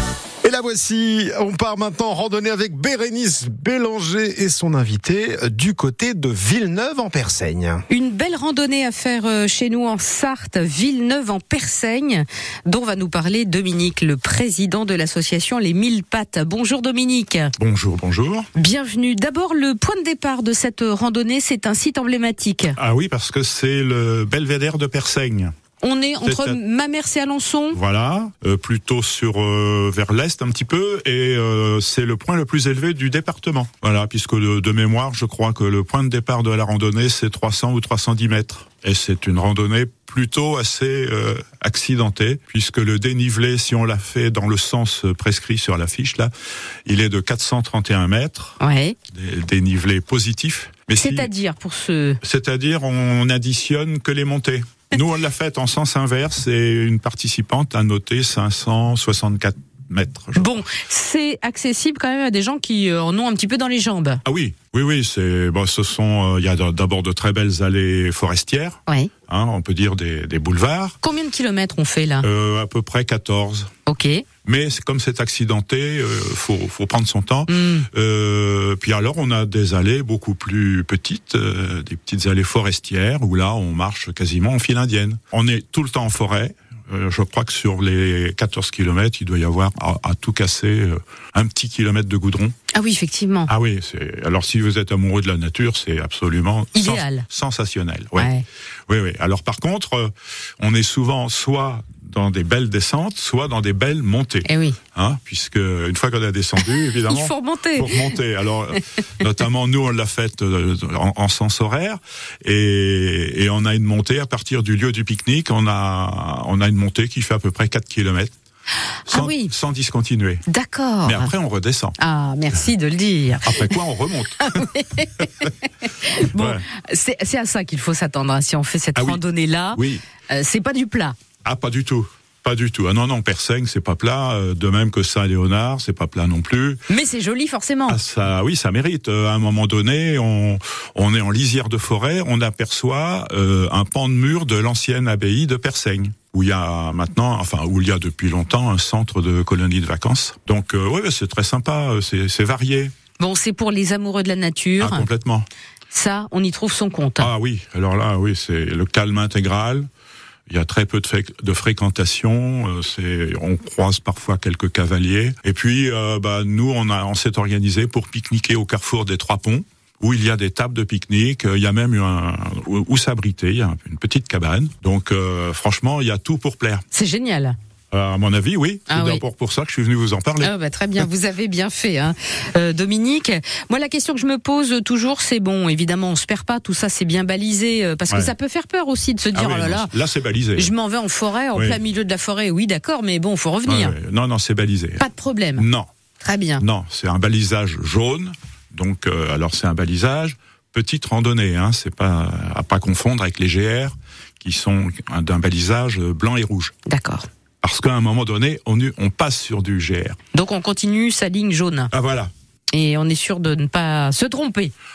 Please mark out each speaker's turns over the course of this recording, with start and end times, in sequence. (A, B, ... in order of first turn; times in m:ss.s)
0:00.4-0:07.8 A
0:07.9-0:17.5 B
0:17.6-0:18.5 C
0:18.5-0:22.8 B
0:22.8-0:25.5 C
0:25.8-0:27.8 B
0:26.2-0:26.6 C
0:27.7-0:46.3 C
0:46.9-0:48.6 C
0:48.6-0:49.0 B
0:49.1-0:51.3 C
0:51.0-0:52.2 B
0:52.2-1:00.6 C
1:00.4-1:04.2 B
1:04.2-1:11.0 C
1:08.9-1:09.1 B
1:11.0-1:12.3 B
1:12.2-1:13.7 C
1:13.9-1:14.2 B
1:14.4-1:32.5 C
1:17.5-1:17.9 B
1:32.7-1:33.5 B
1:33.5-1:38.3 C
1:36.7-1:37.2 B
1:38.2-1:38.4 B
1:38.9-1:58.4 C
1:44.4-1:44.8 B
1:47.1-1:48.2 B
1:59.1-2:00.4 C
1:59.1-1:59.5 B
2:00.5-2:01.3 B
2:01.0-2:02.0 C
2:02.0-2:03.8 B
2:03.4-2:04.7 C
2:04.3-2:11.2 B
2:06.4-2:06.7 C
2:09.8-2:10.0 C
2:11.4-2:16.8 C
2:16.9-2:18.0 B
2:17.9-2:32.9 C
2:33.2-2:35.1 B
2:34.8-2:35.4 C
2:35.9-2:37.3 B
2:37.2-2:39.9 C
2:40.5-2:56.8 C
2:56.9-2:57.6 B
2:57.9-3:00.5 C
2:58.9-2:59.2 B
3:00.4-3:09.9 B
3:09.3-3:10.7 C
3:10.6-3:14.0 B
3:11.5-3:11.8 C
3:13.7-3:15.0 C
3:15.0-3:15.7 B
3:15.6-3:15.9 C
3:16.2-3:16.6 B
3:16.6-3:26.8 C
3:26.9-3:27.3 B
3:27.6-3:30.2 C
3:30.3-3:31.9 B
3:31.9-3:32.3 C
3:32.7-3:34.7 B